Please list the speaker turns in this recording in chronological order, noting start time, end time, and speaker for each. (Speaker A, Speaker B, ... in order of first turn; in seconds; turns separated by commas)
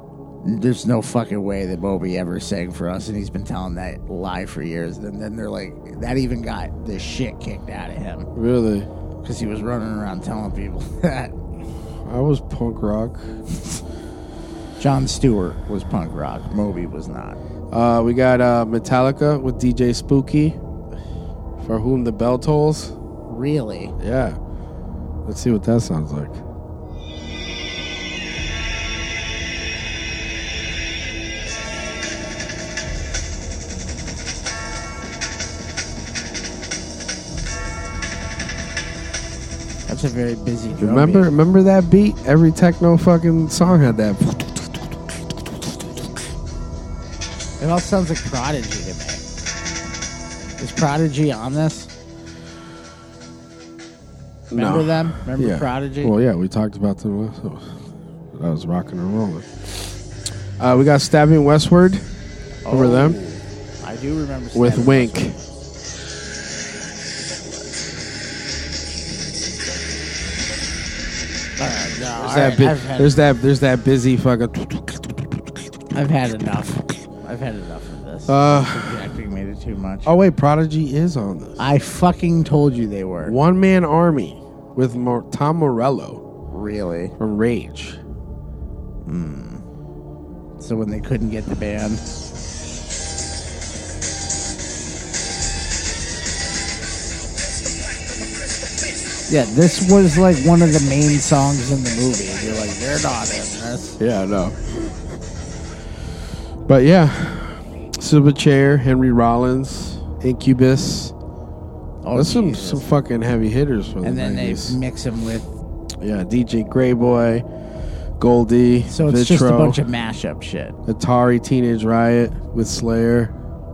Speaker A: 0.4-8.3, Speaker B: 8.3-8.9, Speaker A: 9.2-11.4, Speaker B: 12.0-13.4, Speaker A: 14.8-17.4, Speaker B: 17.7-20.6, Speaker B: 21.6-22.9, Speaker A: 23.3-23.9, Speaker B: 24.0-24.4, Speaker B: 25.3-26.4, Speaker A: 39.9-41.3, Speaker B: 40.8-44.9, Speaker A: 47.6-49.2, Speaker A: 50.6-51.9, Speaker B: 54.5-60.0, Speaker A: 54.5-56.1, Speaker B: 60.6-62.1, Speaker A: 62.6-65.3, Speaker B: 62.7-63.2, Speaker B: 64.5-65.4, Speaker A: 71.6-73.2, Speaker B: 72.2-75.4, Speaker A: 75.9-80.1, Speaker B: 78.3-79.1, Speaker B: 80.0-81.7, Speaker A: 81.6-83.3, Speaker B: 83.2-86.2, Speaker A: 86.5-87.1, Speaker B: 87.2-88.0, Speaker A: 89.0-89.7, Speaker A: 90.6-92.0, Speaker A: 99.3-104.0, Speaker B: 104.0-105.0, Speaker B: 106.7-111.1, Speaker A: 112.0-112.9, Speaker B: 112.1-114.8, Speaker A: 114.0-115.6, Speaker B: 116.0-117.5, Speaker B: 118.2-119.8, Speaker A: 118.9-120.8, Speaker B: 120.9-123.3